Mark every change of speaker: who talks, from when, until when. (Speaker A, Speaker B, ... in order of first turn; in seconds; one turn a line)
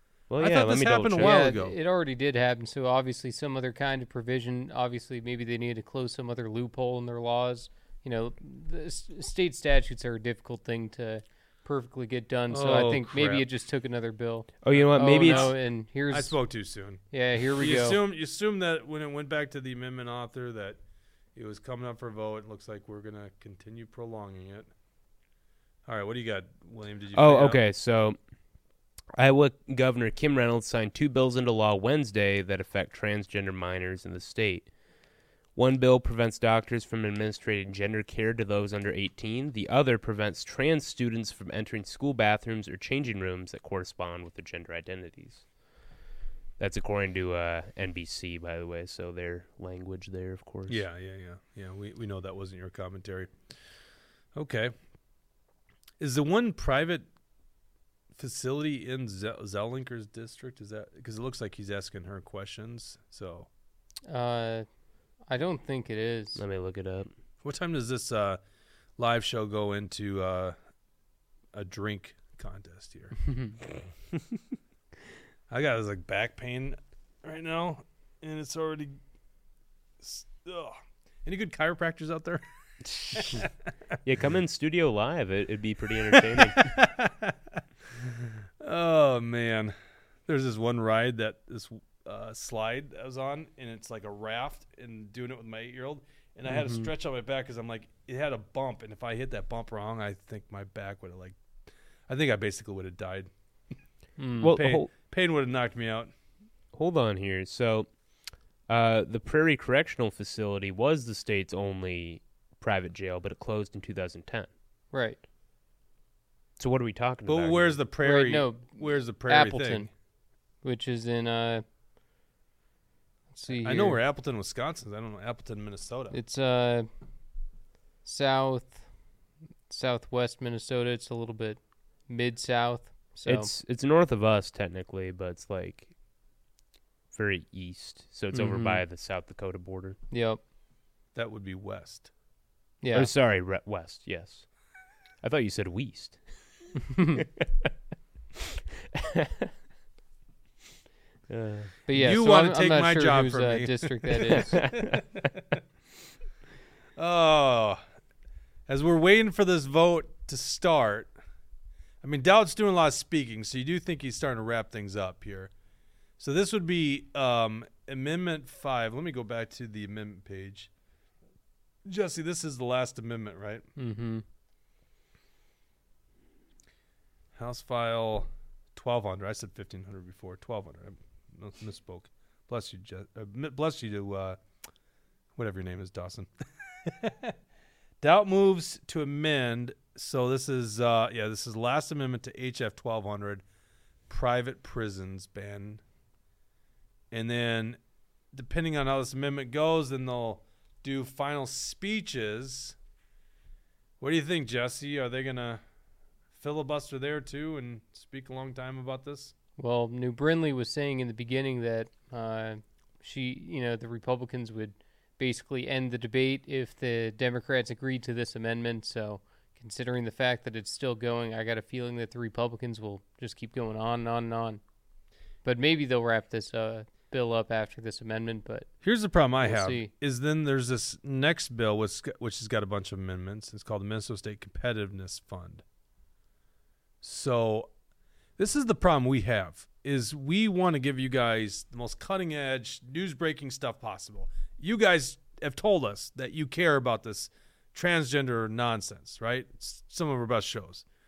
Speaker A: 0.3-1.4
Speaker B: 0.4-1.7
Speaker C: 1.2-16.5
Speaker B: 12.5-13.4
Speaker A: 14.6-15.5
Speaker B: 14.7-20.8
Speaker C: 17.1-18.0
Speaker B: 21.3-24.7
Speaker B: 25.8-27.6
Speaker A: 27.1-28.2
Speaker A: 29.2-34.7
Speaker A: 35.5-45.5
Speaker A: 46.6-50.8
Speaker B: 50.7-53.4
Speaker B: 54.3-54.7
Speaker B: 56.0-57.1
Speaker B: 58.1-63.5
Speaker C: 64.1-64.7
Speaker C: 65.2-66.4
Speaker A: 66.3-67.1
Speaker B: 67.4-68.4
Speaker B: 69.0-70.5
Speaker B: 71.5-73.9
Speaker C: 73.3-73.5
Speaker B: 75.5-79.0
Speaker B: 80.0-82.4
Speaker A: 82.8-83.5
Speaker B: 83.1-83.4
Speaker A: 84.0-86.8
Speaker B: 86.3-87.6
Speaker B: 88.6-89.7
Speaker B: 90.2-101.4
Speaker C: 96.5-96.9
Speaker B: 102.1-103.3
Speaker C: 104.2-104.5
Speaker A: 104.4-104.9
Speaker B: 104.4-106.1
Speaker A: 106.7-114.5
Speaker C: 114.9-115.2
Speaker A: 116.6-117.8
Speaker B: 117.2-119.9
Speaker C: 118.0-119.9
Speaker C: 120.6-121.6
Speaker C: 123.3-124.0
Speaker B: 123.5-126.2
Speaker C: 126.1-126.9
Speaker C: 128.0-128.9
Speaker C: 129.7-133.5
Speaker A: 133.2-135.9
Speaker A: 137.1-140.0
Speaker C: 138.3-138.8
Speaker C: 140.1-140.4
Speaker B: 141.1-142.1
Speaker C: 142.8-143.1
Speaker A: 142.9-144.5
Speaker A: 145.2-147.2
Speaker A: 149.2-149.5
Speaker A: 151.3-151.8
Speaker C: 151.9-154.6
Speaker B: 151.9-155.6
Speaker B: 156.9-157.8
Speaker B: 158.7-161.1
Speaker B: 162.0-165.5
Speaker B: 166.2-170.7
Speaker B: 171.8-173.7
Speaker C: 173.8-174.2
Speaker B: 177.3-184.4
Speaker B: 185.3-186.3
Speaker B: 186.8-187.3
Speaker B: 188.0-193.4
Speaker B: 194.1-195.8
Speaker B: 197.1-197.8
Speaker B: 198.3-202.8
Speaker B: 204.0-205.6
Speaker B: 206.4-209.3
Speaker C: 209.6-224.6
Speaker C: 225.4-228.7
Speaker B: 228.8-235.6
Speaker C: 229.4-229.9
Speaker B: 237.0-237.7
Speaker B: 238.4-250.8